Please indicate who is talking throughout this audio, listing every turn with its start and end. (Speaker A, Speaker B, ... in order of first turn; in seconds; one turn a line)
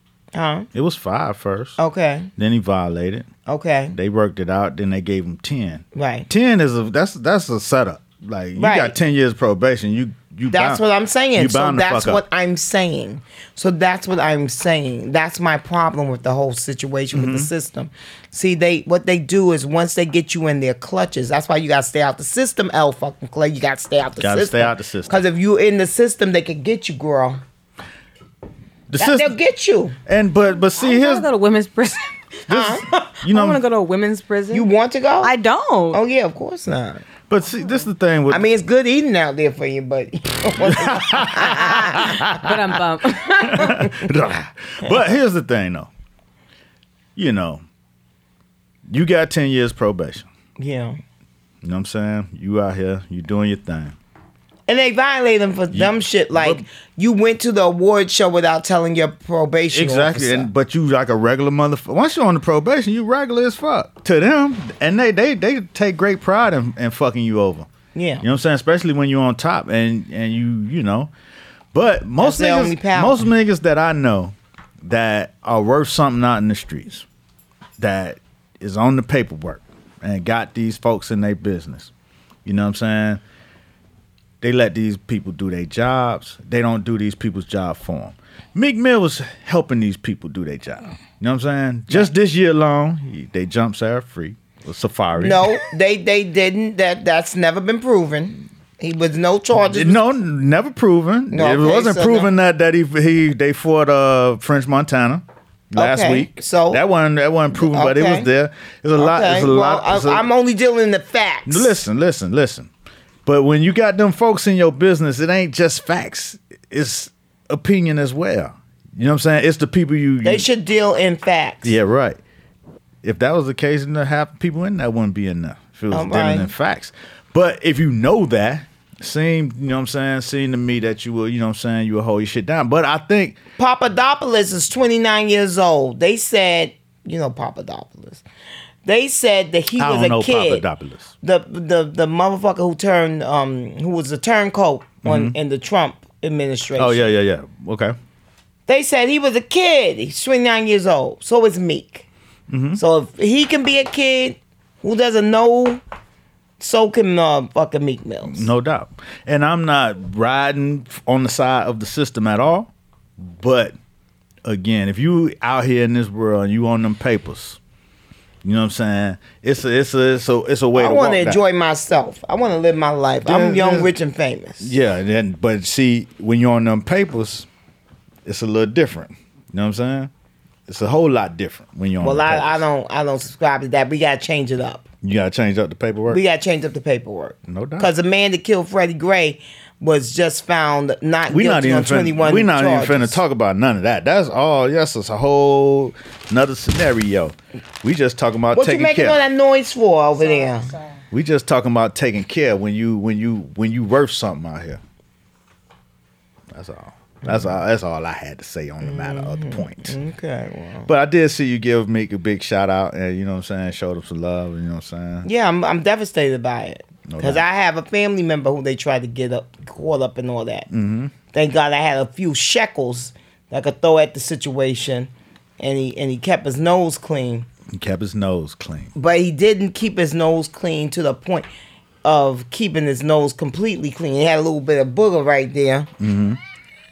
Speaker A: 0.3-0.7
Speaker B: 0.7-1.8
Speaker A: 1.8-2.3
Speaker B: 2.4-3.3
Speaker A: 3.5-4.0
Speaker B: 3.9-10.8
Speaker A: 5.9-6.3
Speaker A: 8.6-8.9
Speaker A: 10.5-27.4
Speaker B: 11.3-12.2
Speaker B: 17.1-17.5
Speaker B: 24.2-25.2
Speaker B: 28.9-29.4
Speaker A: 29.0-30.0
Speaker B: 30.1-31.3
Speaker C: 30.7-32.1
Speaker B: 32.5-33.6
Speaker A: 32.5-32.9
Speaker C: 32.7-34.7
Speaker A: 34.5-35.3
Speaker C: 35.2-36.0
Speaker A: 35.9-37.0
Speaker B: 37.3-38.4
Speaker A: 38.3-42.3
Speaker B: 40.6-42.6
Speaker C: 41.7-44.0
Speaker B: 43.4-45.9
Speaker B: 47.1-47.6
Speaker B: 48.9-50.3
Speaker A: 50.6-51.0
Speaker B: 51.6-54.0
Speaker A: 54.7-60.5
Speaker B: 55.7-56.6
Speaker B: 59.7-67.7
Speaker A: 67.9-68.2
Speaker B: 68.2-71.1
Speaker B: 71.7-77.0
Speaker A: 72.2-73.3
Speaker B: 77.8-81.9
Speaker B: 82.4-83.2
Speaker B: 84.4-95.6
Speaker A: 95.2-100.0
Speaker B: 99.5-110.3
Speaker A: 101.3-102.3
Speaker A: 105.8-106.8
Speaker A: 107.5-108.3
Speaker A: 109.0-111.7
Speaker B: 111.5-112.7
Speaker B: 113.2-120.5
Speaker A: 120.2-121.8
Speaker B: 121.6-122.2
Speaker B: 123.0-133.4
Speaker A: 125.9-126.5
Speaker A: 133.6-138.2
Speaker A: 138.8-140.6
Speaker B: 139.8-141.1
Speaker A: 141.2-147.0
Speaker B: 145.0-145.3
Speaker B: 146.8-147.9
Speaker A: 148.7-152.1
Speaker B: 152.5-152.8
Speaker A: 152.8-155.8
Speaker A: 156.6-158.5
Speaker B: 158.2-163.7
Speaker B: 164.4-167.6
Speaker B: 168.4-171.4
Speaker A: 170.7-174.8
Speaker B: 173.2-173.9
Speaker B: 174.6-177.5
Speaker B: 178.2-180.1
Speaker B: 180.7-182.6
Speaker A: 182.0-184.8
Speaker B: 185.0-186.2
Speaker A: 186.1-193.2
Speaker B: 187.5-187.9
Speaker B: 191.3-199.2
Speaker A: 198.5-200.7
Speaker C: 200.2-201.0
Speaker B: 201.1-204.8
Speaker B: 206.5-209.9
Speaker A: 207.2-207.5
Speaker A: 208.8-210.9
Speaker B: 210.9-215.3
Speaker A: 215.2-220.7
Speaker B: 217.1-217.4
Speaker B: 220.7-221.1
Speaker A: 221.3-227.5
Speaker B: 227.7-228.9
Speaker A: 228.9-231.5
Speaker A: 232.0-235.9
Speaker B: 236.0-236.4